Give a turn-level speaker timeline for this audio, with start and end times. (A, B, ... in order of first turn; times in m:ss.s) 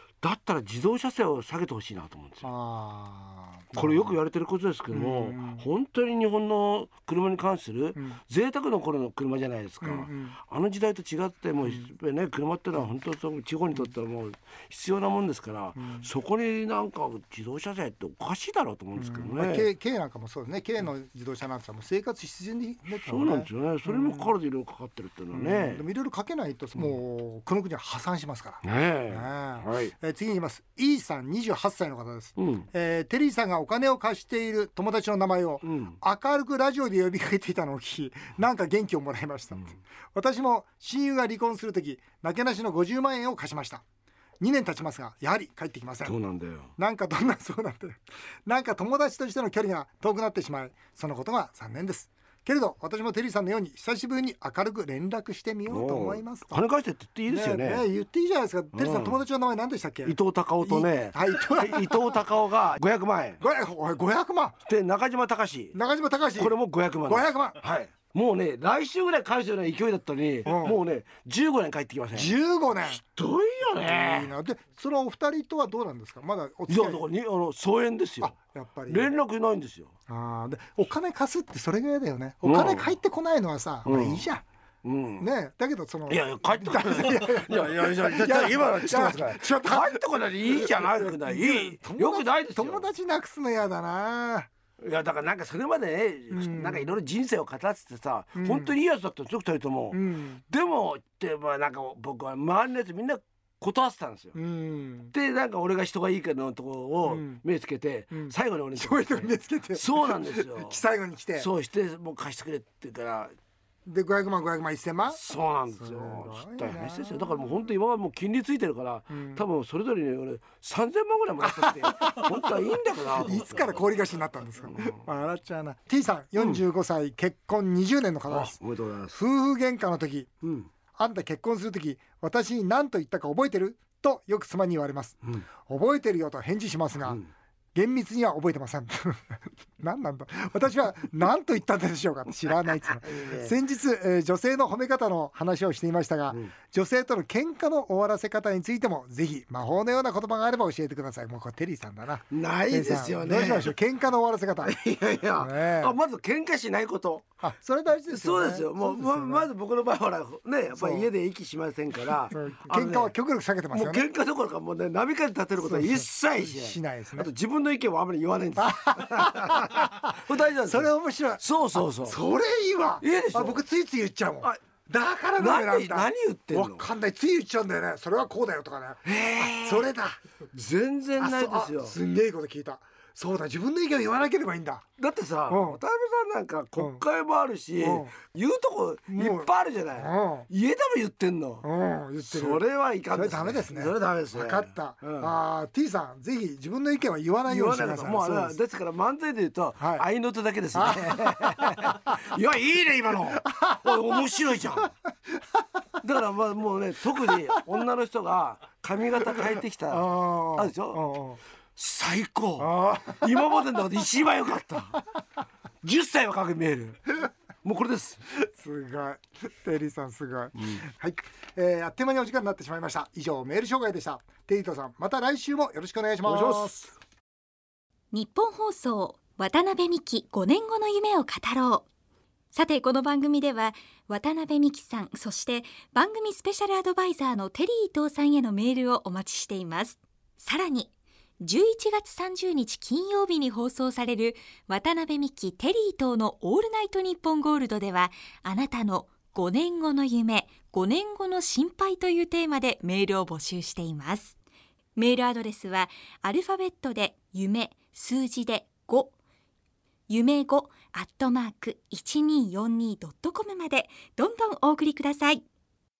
0:00.2-0:02.5 A
0:02.4-0:04.1 B
0:03.7-0:19.7 A
0:04.9-0:05.6 B
0:09.8-0:10.4 B
0:15.8-0:16.1 B
0:19.0-0:24.3 B
0:23.0-0:25.8 A
0:25.3-0:43.8 B
0:28.6-0:29.9 A
0:32.4-0:32.7 A
0:35.6-0:36.0 A
0:44.4-0:46.2 B
0:46.0-0:46.7 A
0:46.8-0:56.6 B
0:55.7-0:57.8 A
0:57.3-1:02.2 B
0:58.7-0:59.2 A
1:00.0-1:03.4 A
1:03.4-1:04.6 B
1:04.6-1:05.8 A
1:05.7-1:06.5 B
1:06.4-1:12.3 A
1:07.1-1:07.6 B
1:10.4-1:10.8 B
1:12.1-1:13.0 B
1:12.8-1:14.3 A
1:13.8-1:17.0 B
1:16.7-1:18.4 A
1:18.2-1:19.1 B
1:18.9-1:19.9 A
1:20.1-1:24.4 B
1:22.4-1:22.9 A
1:23.8-1:24.3 A
1:24.8-1:25.3 A
1:25.2-1:34.5 B
1:26.1-1:32.9 A
1:34.8-1:44.4 A
1:36.3-1:36.9 B
1:38.4-1:38.7 B
1:39.9-1:40.4 B
1:44.3-1:45.1 B
1:45.1-1:50.8 A
1:47.0-1:47.4 B
1:48.1-1:51.5 B
1:51.4-1:53.3 A
1:53.8-1:55.2 B
1:55.1-2:03.8 A
1:55.7-1:57.6 B
1:59.1-1:59.4 B
2:01.4-2:02.5 B
2:03.2-2:08.6 B
2:04.7-2:05.0 A
2:08.3-2:09.2 A
2:09.1-2:10.3 B
2:10.4-2:10.7 A
2:11.0-2:17.2 B
2:17.7-2:34.8 B
2:23.0-2:23.5 A
2:32.3-2:33.7 A
2:34.6-2:37.4 A
2:35.4-2:35.9 B
2:37.4-2:39.5 B
2:38.1-2:43.1 A
2:40.7-2:41.1 B
2:42.3-2:44.0 B
2:43.7-2:52.2 A
2:45.6-2:47.3 B
2:48.6-3:00.2 B
2:53.0-2:53.6 A
2:55.4-2:56.9 A
2:59.0-2:59.9 A
3:00.5-3:02.0 A
3:01.2-3:04.8 B
3:05.0-3:11.6 A
3:05.5-3:05.8 B
3:07.8-3:08.1 B
3:09.1-3:10.5 B
3:11.6-3:12.6 B
3:12.2-3:15.3 A
3:13.1-3:18.6 B
3:17.4-3:24.9 A
3:19.8-3:20.0 B
3:20.7-3:22.2 B
3:23.4-3:24.2 B
3:26.0-3:31.0 A
3:29.9-3:31.4 B
3:31.8-3:35.0 A
3:32.6-3:33.2 B
3:35.8-3:38.2 A
3:38.3-3:46.8 B
3:46.2-3:46.9 A
3:48.1-3:51.8 C
3:52.5-4:14.3 C
4:15.0-4:19.1 C
4:20.1-4:25.4 C